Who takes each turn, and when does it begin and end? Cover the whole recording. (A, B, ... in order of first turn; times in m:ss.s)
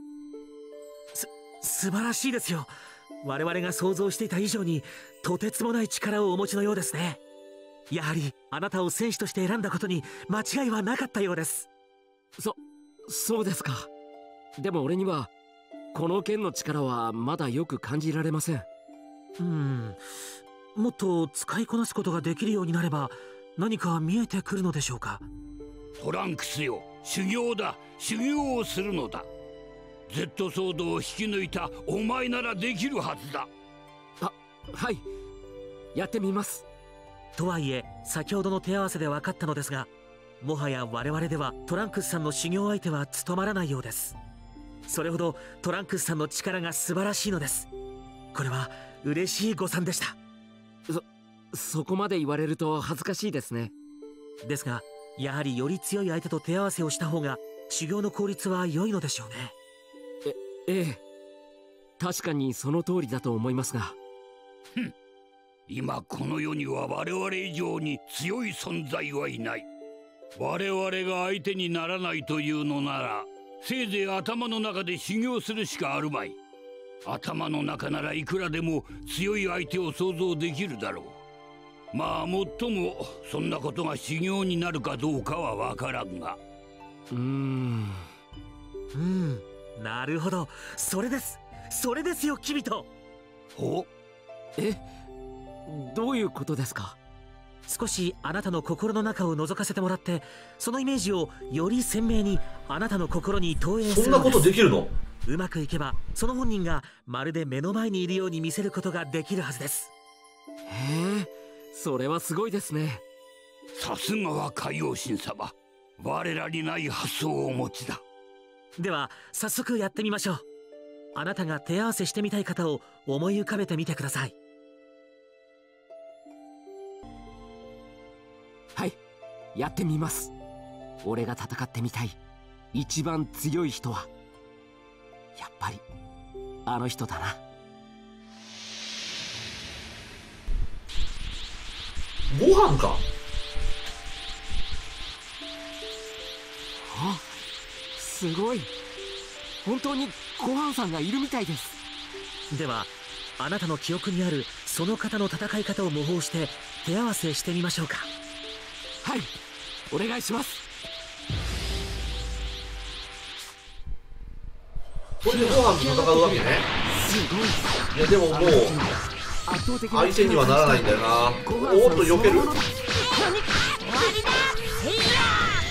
0:01.1-0:07.2 A
0:07.9-0:11.7 A
0:12.4-0:13.9 B
0:14.6-0:15.3 B
0:15.9-0:18.6 B
0:19.4-0:20.0 A
0:20.7-0:25.3 A
0:26.0-0:29.3 C
0:30.1-0:33.5 C
0:34.2-0:35.0 B
0:35.9-0:36.6 B
0:37.4-0:39.9 A
0:40.4-0:44.2 A
0:44.8-0:47.7 A
0:48.3-0:50.2 A
0:50.9-0:53.7 B
0:54.4-0:59.5 A
1:00.2-1:01.0 B
1:02.0-1:04.0 B
1:05.7-1:09.7 C
1:10.4-1:16.4 C
1:17.0-1:21.2 C
1:21.9-1:26.4 C
1:27.1-1:28.0 B
1:28.9-1:32.9 A
1:33.5-1:33.9 C
1:34.6-1:34.8 B
1:35.6-1:37.0 B
1:37.7-1:44.5 A
1:43.8-1:44.9 D
1:45.2-1:49.9 A
1:50.7-1:53.0 B
1:53.8-1:58.0 C
1:58.8-2:00.4 A
2:01.1-2:04.3 A
2:09.5-2:10.3 B
2:11.0-2:12.2 B
2:12.7-2:14.1 B
2:15.4-2:15.8 B
2:16.6-2:17.4 B
2:22.3-2:23.0 D
2:26.9-2:27.4 B
2:27.9-2:28.7 B
2:29.6-2:31.8 B
2:32.5-2:38.1 A
2:39.0-2:39.3 B
2:39.9-2:40.6 B
2:45.2-2:46.6 D
2:45.3-2:53.2 B
2:47.9-2:48.8 D
2:49.9-2:52.6 D
2:53.8-2:54.4 B